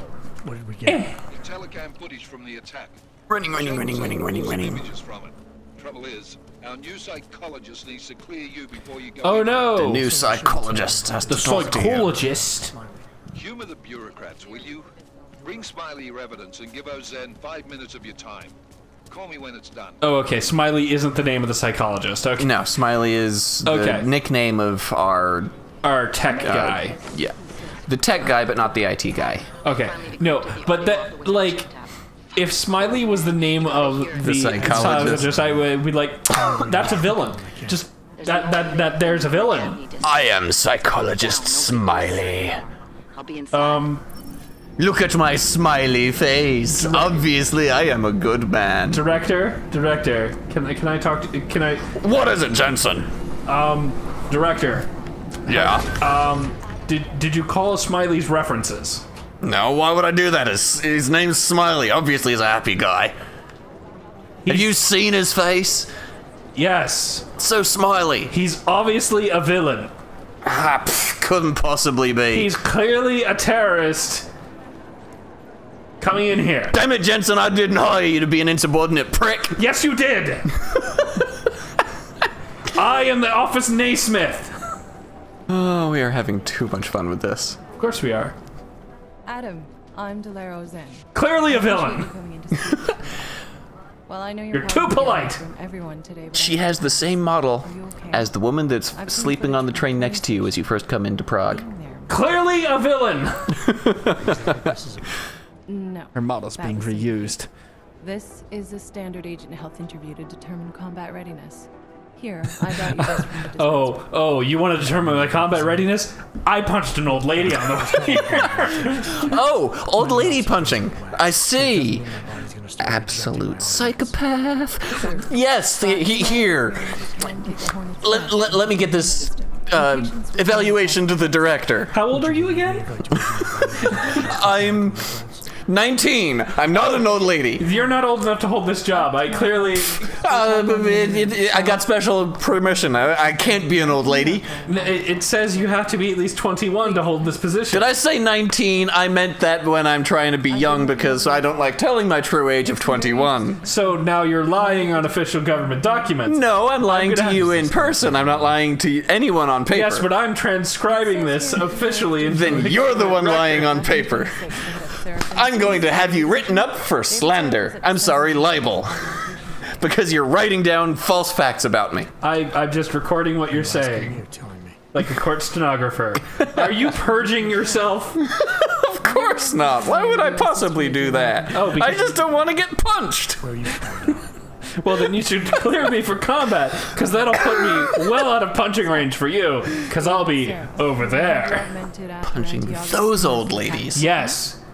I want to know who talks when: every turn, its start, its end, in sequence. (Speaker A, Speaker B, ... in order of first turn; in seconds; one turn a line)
Speaker A: 0.4-1.1
Speaker B: 0.8-1.2
Speaker C: 1.3-9.8
Speaker D: 3.3-4.9
Speaker B: 9.2-10.1
Speaker D: 9.7-12.1
Speaker A: 9.9-13.1
Speaker B: 11.2-12.7
Speaker C: 13.3-18.5
Speaker C: 19.1-20.0
Speaker B: 20.0-22.6
Speaker D: 22.4-25.5
Speaker B: 23.6-24.1
Speaker B: 25.8-27.0
Speaker E: 26.3-28.8
Speaker D: 26.4-29.5
Speaker B: 29.6-31.7
Speaker E: 29.6-35.2
Speaker B: 32.3-39.8
Speaker D: 34.1-35.3
Speaker A: 34.6-35.6
Speaker A: 36.3-37.8
Speaker E: 38.1-44.0
Speaker D: 40.0-42.6
Speaker B: 43.5-44.0
Speaker D: 44.8-49.0
Speaker B: 46.7-47.2
Speaker B: 48.9-51.9
Speaker D: 51.9-53.1
Speaker B: 53.5-54.9
Speaker D: 55.5-55.9
Speaker B: 55.5-59.0
Speaker D: 59.4-63.1
Speaker B: 64.4-64.7
Speaker D: 64.5-65.9
Speaker B: 66.5-67.3
Speaker D: 67.4-68.3
Speaker B: 68.3-69.9
Speaker D: 70.4-72.5
Speaker B: 72.3-74.3
Speaker B: 76.0-76.8
Speaker D: 76.7-79.6
Speaker B: 79.5-80.5
Speaker B: 82.7-84.5
Speaker D: 85.5-87.6
Speaker B: 87.8-88.3
Speaker F: 89.2-93.4
Speaker B: 91.1-92.1
Speaker F: 94.1-98.3
Speaker B: 94.5-95.4
Speaker D: 96.3-101.7
Speaker F: 98.9-102.7
Speaker B: 102.1-103.5
Speaker A: 104.1-105.2
Speaker F: 105.7-107.4
Speaker B: 106.1-107.5
Speaker F: 108.0-114.3
Speaker B: 113.0-119.2
Speaker A: 114.8-115.9
Speaker A: 117.1-124.3
Speaker D: 119.2-122.1
Speaker D: 122.8-127.1
Speaker F: 124.9-131.9
Speaker D: 128.0-131.9
Speaker B: 131.9-133.0
Speaker A: 132.1-135.6
Speaker D: 134.2-135.0
Speaker D: 135.6-137.6
Speaker F: 136.8-148.6
Speaker B: 137.6-140.3
Speaker D: 140.2-144.6
Speaker B: 144.6-147.8
Speaker D: 147.7-153.6
Speaker F: 150.5-156.3
Speaker B: 153.6-158.4
Speaker D: 156.2-160.1
Speaker A: 157.5-158.0
Speaker B: 159.7-163.8
Speaker F: 160.8-170.2
Speaker D: 162.3-164.7
Speaker D: 165.3-169.2
Speaker D: 169.8-172.1
Speaker B: 172.2-174.2
Speaker A: 173.5-174.8
Speaker B: 174.9-178.2
Speaker D: 176.5-176.8
Speaker F: 177.0-178.0
Speaker D: 178.2-183.4
Speaker F: 179.0-182.3
Speaker B: 181.4-182.2
Speaker A: 183.4-184.3
Speaker B: 184.8-191.7
Speaker D: 187.3-187.7
Speaker F: 188.0-194.4
Speaker D: 192.2-194.0
Speaker B: 193.9-194.6